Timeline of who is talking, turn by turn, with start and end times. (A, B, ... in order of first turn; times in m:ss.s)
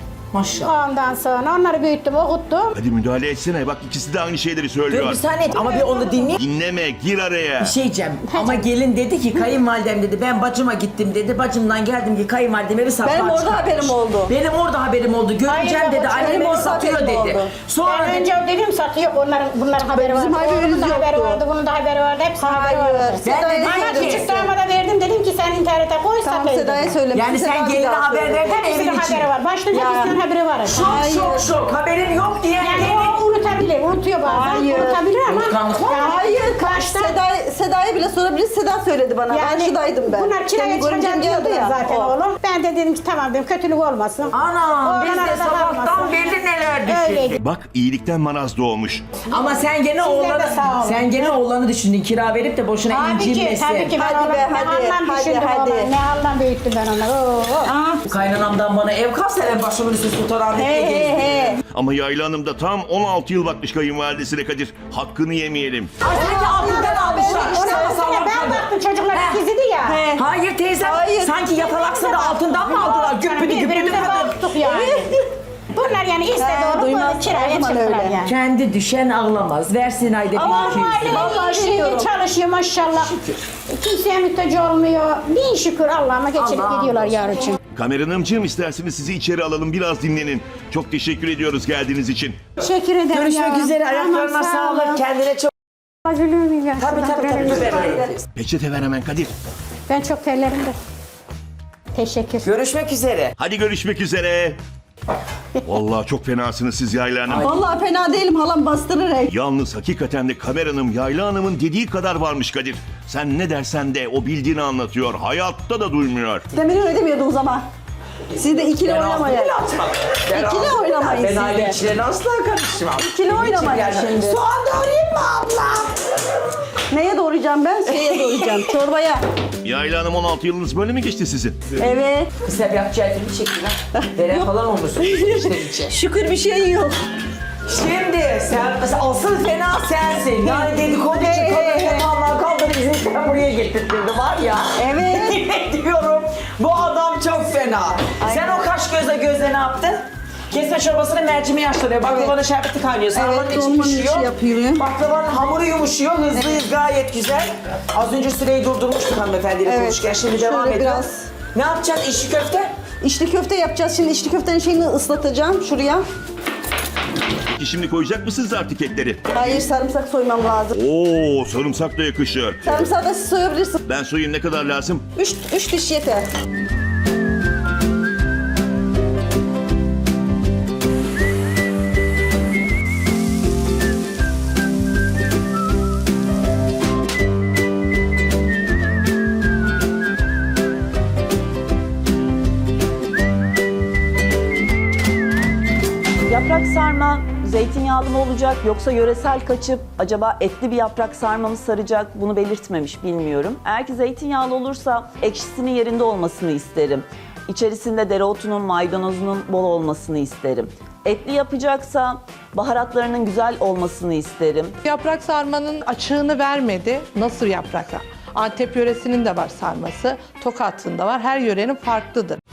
0:00.3-0:00.7 A
0:00.6-0:02.8 B
0:02.7-0:05.2 C
0:04.9-0:06.4 A
0:05.5-0:06.4 B
0:06.4-0:07.7 C
0:07.6-0:18.3 A
0:08.3-0:08.7 B
0:13.0-0:14.3 D
0:15.5-0:16.2 B
0:16.0-0:17.5 D
0:17.8-0:27.0 B
0:19.9-0:21.4 D
0:22.4-0:24.5 D
0:23.2-0:24.3 A
0:26.2-0:28.5 D
0:27.1-0:33.2 A
0:28.4-0:31.0 B
0:29.8-0:30.1 D
0:30.8-0:31.5 D
0:32.6-0:37.2 B
0:34.2-0:35.0 D
0:35.3-0:36.1 A
0:35.9-0:42.1 D
0:39.3-0:47.4 B
0:44.3-0:47.4 A
0:47.4-0:49.1 C
0:49.3-0:54.0 A
0:50.0-0:51.4 B
0:52.9-0:57.7 B
0:54.0-0:55.9 D
0:57.6-0:58.0 D
0:58.0-1:01.6 A
1:00.6-1:01.6 D
1:01.7-1:06.0 C
1:06.0-1:09.4 A
1:06.1-1:07.6 D
1:06.5-1:10.0 B
1:09.9-1:10.2 D
1:10.1-1:14.4 A
1:10.8-1:12.3 D
1:11.9-1:15.1 B
1:13.9-1:15.2 D
1:15.7-1:18.3 B
1:16.4-1:18.2 D
1:18.2-1:21.4 A
1:20.4-1:22.1 D
1:20.4-1:23.2 B
1:23.7-1:27.6 B
1:26.4-1:27.2 A
1:27.7-1:32.4 C
1:32.6-1:35.0 B
1:33.1-1:35.5 A
1:36.0-1:38.0 B
1:36.8-1:38.2 A
1:37.6-1:38.0 D
1:38.4-1:39.3 C
1:39.9-1:40.8 B
1:41.9-1:42.5 B
1:42.4-1:43.3 A
1:43.4-1:44.6 C
1:45.6-1:47.5 C
1:47.3-1:47.5 A
1:47.4-1:49.3 D
1:49.3-1:56.4 C
1:56.5-1:57.6 D
1:58.4-1:59.5 D
1:58.7-2:05.9 A
2:00.3-2:01.8 D
2:03.0-2:04.4 D
2:06.9-2:09.2 D
2:07.9-2:08.6 A
2:09.6-2:11.6 C
2:11.8-2:12.3 D
2:12.4-2:16.0 A
2:14.0-2:14.5 D
2:15.0-2:17.0 D
2:17.7-2:42.7 A
2:20.4-2:22.1 D
2:24.8-2:25.4 D
2:28.2-2:28.7 D
2:32.1-2:32.4 D
2:33.1-2:34.8 D
2:36.3-2:36.6 D
2:39.7-2:41.3 D
2:43.0-2:46.0 D
2:47.6-2:49.4 C
2:49.3-2:50.8 D
2:50.7-2:52.7 C
2:52.6-2:53.8 D
2:53.9-2:55.0 C
2:55.2-2:56.3 D
3:16.3-3:34.8 E
3:34.8-3:42.4 F